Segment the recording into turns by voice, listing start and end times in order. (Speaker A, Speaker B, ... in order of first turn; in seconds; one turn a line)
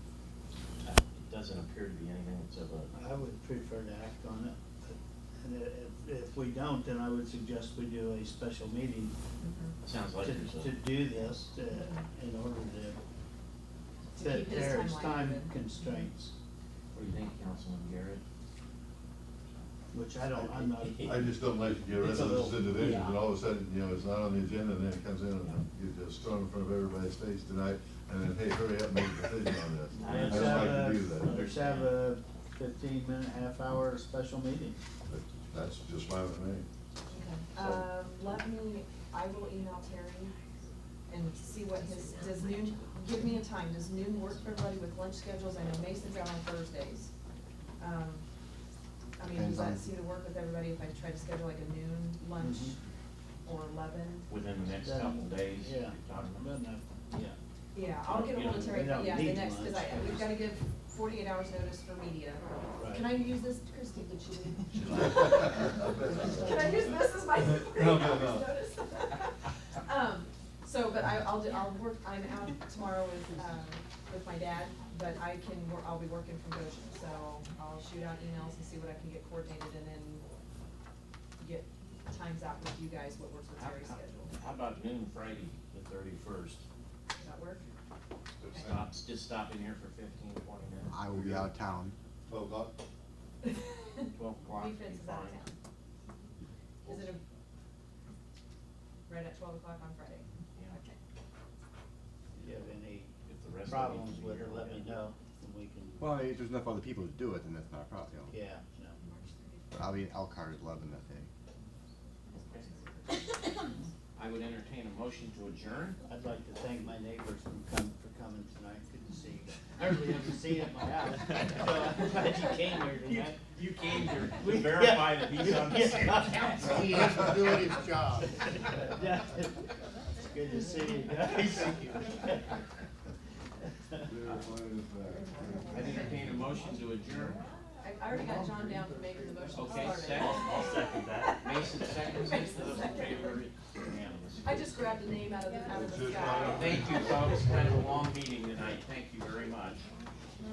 Speaker A: 0.8-2.9
Speaker B: 2.9-9.2
Speaker C: 9.4-9.8
Speaker A: 9.8-10.8
Speaker B: 10.2-13.0
Speaker C: 11.7-12.0
Speaker C: 14.1-16.1
Speaker B: 14.2-16.3
Speaker A: 16.9-18.2
Speaker B: 19.9-21.1
Speaker A: 20.3-21.3
Speaker D: 20.9-31.5
Speaker A: 22.0-23.2
Speaker A: 29.9-32.0
Speaker B: 30.0-34.8
Speaker D: 35.1-36.7
Speaker C: 37.1-40.4
Speaker C: 41.1-47.1
Speaker C: 47.8-48.2
Speaker C: 49.2-52.8
Speaker B: 49.4-49.8
Speaker B: 52.4-52.8
Speaker C: 53.4-54.3
Speaker A: 54.3-56.5
Speaker B: 54.8-57.4
Speaker C: 57.7-80.2
Speaker A: 58.0-58.9
Speaker B: 58.7-60.2
Speaker B: 62.8-63.1
Speaker D: 64.8-68.5
Speaker C: 81.4-84.3
Speaker A: 83.6-86.6
Speaker C: 87.2-87.6
Speaker D: 88.4-88.8
Speaker A: 88.5-90.9
Speaker E: 90.9-92.0
Speaker D: 91.1-91.5
Speaker D: 92.3-92.8
Speaker C: 93.4-95.6
Speaker A: 94.1-95.4
Speaker C: 96.8-97.2
Speaker C: 99.1-101.0
Speaker B: 102.3-103.1
Speaker A: 103.3-105.0
Speaker B: 103.7-106.2
Speaker E: 106.0-108.4
Speaker B: 108.3-109.0
Speaker C: 109.0-109.9
Speaker E: 109.7-111.3
Speaker C: 112.3-113.9
Speaker A: 114.2-116.0
Speaker B: 116.0-123.4
Speaker A: 123.0-127.4
Speaker B: 124.4-129.6
Speaker D: 126.6-127.5
Speaker B: 130.2-132.0
Speaker A: 131.2-132.2
Speaker D: 134.0-136.3
Speaker A: 135.7-137.4
Speaker C: 135.8-136.1
Speaker C: 137.8-141.4
Speaker B: 138.2-138.7
Speaker A: 139.5-140.5
Speaker B: 140.2-141.4
Speaker A: 141.4-145.0
Speaker C: 142.2-143.3
Speaker C: 144.4-146.9
Speaker D: 145.7-147.4
Speaker A: 146.5-149.9